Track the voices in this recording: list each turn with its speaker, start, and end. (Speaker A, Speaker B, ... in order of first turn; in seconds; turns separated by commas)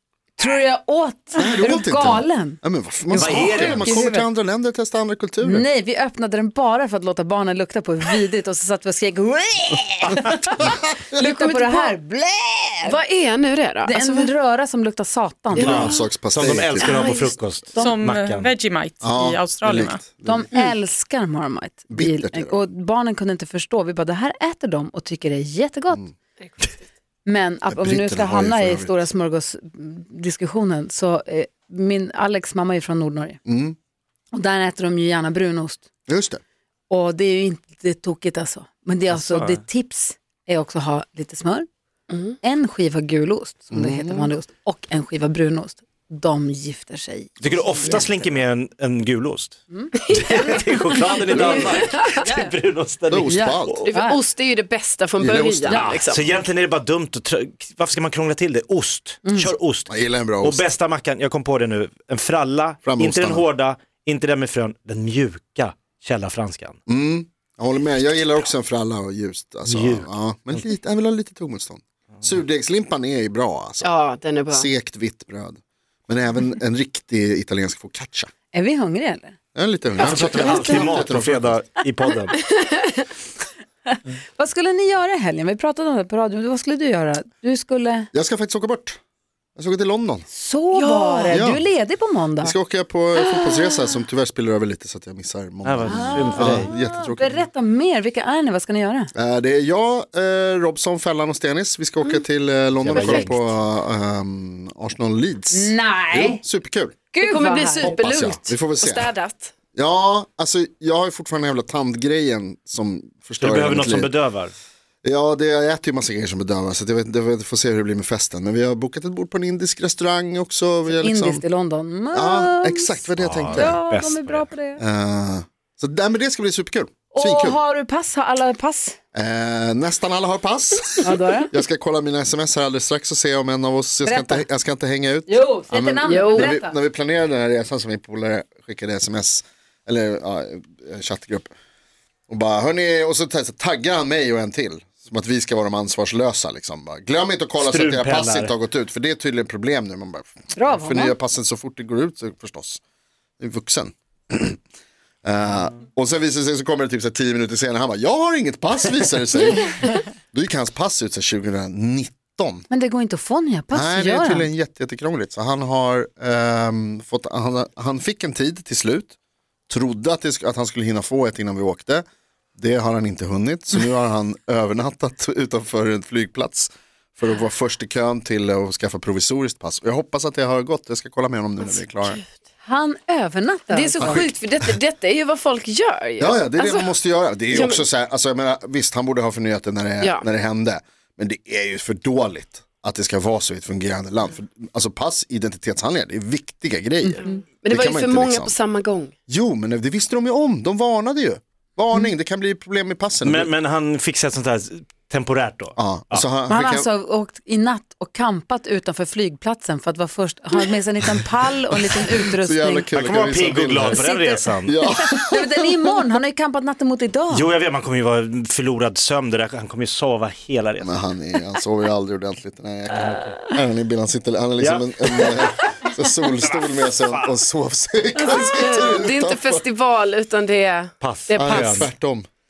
Speaker A: 0.4-4.3, Speaker B: 1.4-5.7, Speaker C: 3.1-4.0, Speaker A: 5.4-13.0, Speaker D: 11.2-11.9, Speaker D: 12.8-14.3, Speaker A: 13.8-15.9, Speaker D: 15.6-15.9, Speaker B: 15.6-17.0, Speaker C: 15.6-18.5, Speaker D: 16.8-17.3, Speaker E: 17.8-20.0, Speaker B: 19.0-20.6, Speaker A: 20.2-26.1, Speaker B: 21.9-22.6, Speaker D: 26.4-26.8, Speaker A: 27.2-33.4, Speaker B: 27.7-29.1, Speaker B: 33.5-33.8, Speaker A: 34.3-35.8, Speaker B: 36.1-36.4, Speaker A: 36.9-41.6, Speaker C: 39.1-39.6, Speaker D: 42.1-42.4, Speaker A: 42.4-48.1, Speaker B: 43.7-44.3, Speaker C: 47.4-53.8, Speaker D: 50.1-52.2, Speaker A: 51.4-51.8, Speaker B: 53.1-53.8, Speaker A: 53.3-54.2, Speaker D: 53.8-56.3, Speaker B: 55.2-56.0, Speaker A: 55.7-56.0, Speaker C: 56.1-66.8, Speaker B: 59.9-60.6, Speaker B: 62.8-63.4, Speaker B: 66.9-73.9, Speaker C: 69.7-70.1, Speaker D: 73.8-74.7, Speaker B: 74.5-78.3, Speaker A: 78.5-79.3, Speaker B: 79.5-81.6, Speaker D: 80.0-80.9, Speaker C: 80.0-82.4, Speaker D: 82.4-83.1, Speaker A: 83.9-88.1, Speaker B: 88.1-89.0, Speaker B: 89.6-90.3, Speaker A: 90.3-92.5, Speaker D: 90.7-91.3, Speaker B: 91.3-91.7, Speaker B: 92.4-97.4, Speaker C: 95.6-96.7, Speaker A: 95.8-99.1, Speaker B: 99.1-107.0, Speaker C: 102.8-103.5, Speaker D: 102.9-103.4, Speaker A: 105.5-106.4, Speaker A: 107.1-108.0, Speaker D: 107.2-109.5, Speaker B: 107.8-109.1, Speaker B: 109.7-114.1, Speaker C: 113.4-114.5, Speaker B: 115.0-121.4, Speaker A: 120.8-124.8, Speaker B: 122.1-123.8, Speaker C: 123.2-124.5, Speaker B: 124.8-127.6, Speaker A: 127.1-129.0, Speaker B: 129.1-141.5, Speaker A: 131.0-131.5, Speaker A: 134.0-134.4, Speaker A: 135.3-136.7, Speaker D: 136.1-136.5, Speaker B: 142.3-152.8, Speaker C: 147.6-148.5, Speaker A: 150.5-151.2, Speaker B: 153.4-154.6, Speaker B: 155.2-162.7, Speaker A: 162.7-164.5, Speaker B: 163.7-169.1, Speaker B: 169.7-172.0, Speaker B: 172.6-182.2, Speaker A: 182.6-184.2, Speaker D: 183.7-186.9, Speaker B: 184.0-184.7, Speaker B: 186.2-198.6, Speaker D: 187.5-187.8, Speaker D: 190.0-190.2, Speaker A: 197.1-197.4, Speaker D: 197.2-199.1, Speaker B: 199.3-203.5, Speaker C: 203.2-206.2, Speaker B: 205.8-206.9, Speaker A: 206.5-212.9, Speaker B: 212.4-214.0, Speaker C: 212.9-214.8, Speaker A: 213.8-217.5, Speaker B: 214.6-215.8, Speaker C: 217.3-221.0, Speaker B: 220.8-229.6, Speaker C: 222.9-223.4, Speaker C: 224.6-225.7, Speaker C: 226.4-227.3, Speaker D: 228.2-231.9, Speaker C: 231.0-231.9, Speaker B: 231.3-232.2